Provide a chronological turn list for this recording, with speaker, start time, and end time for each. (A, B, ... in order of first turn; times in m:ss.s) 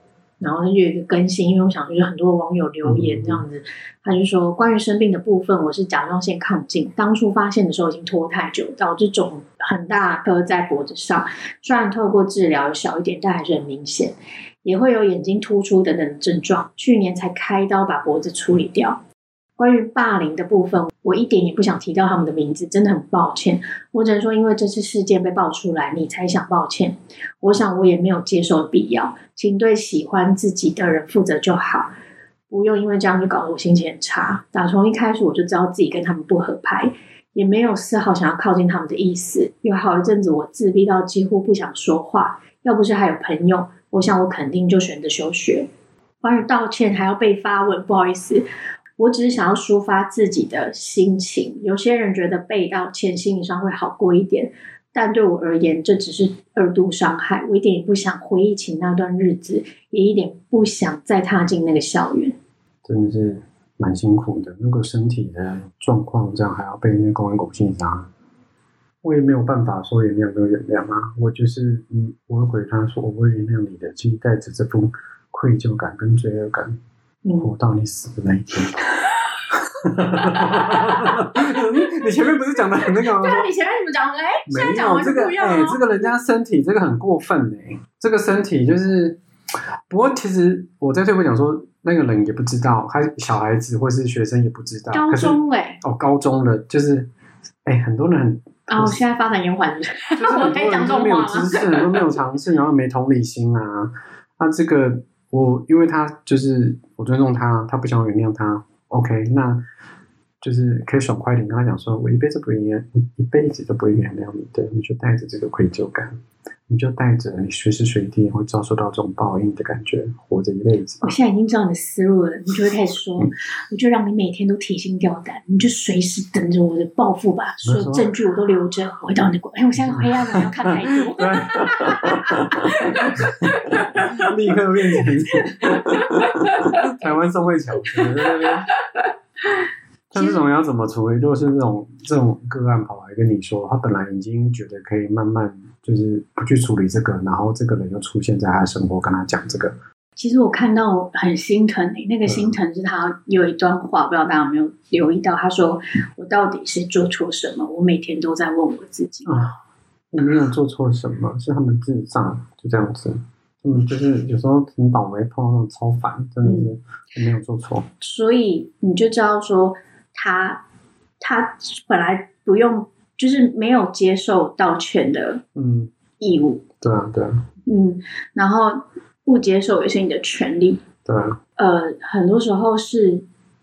0:00.4-0:19.0 A
0:02.8-0:03.4 B
0:19.6-0:31.9 A
0:32.5-0:45.7 A
0:46.2-0:48.4 A
0:49.0-1:02.4 A
1:02.8-1:08.1 B
1:09.0-1:16.8 B
1:17.2-1:17.5 A
1:17.4-1:18.8 B
1:19.5-1:23.5 B
1:22.8-1:25.8 A
1:24.4-1:29.2 B
1:29.9-1:37.1 B
1:34.9-1:35.8 A
1:37.6-1:39.0 B
1:38.7-1:42.0 A
1:40.2-1:49.6 B
1:50.4-2:01.2 B
2:01.0-2:12.0 A
2:07.6-2:08.1 B
2:09.8-2:10.4 B
2:11.1-2:18.7 B
2:13.7-2:14.0 A
2:16.5-2:17.1 A
2:20.1-2:29.8 B
2:20.1-2:20.4 A
2:30.2-2:39.3 A
2:32.2-2:32.6 B
2:39.2-2:39.6 B
2:40.1-2:47.9 B
2:46.4-2:46.7 A
2:48.0-2:50.6 A
2:51.2-2:55.4 A
2:55.5-2:55.9 B
2:56.2-2:56.6 A
2:56.8-2:57.4 B
2:57.7-3:00.8 A
3:01.0-3:01.4 B
3:01.6-3:03.2 A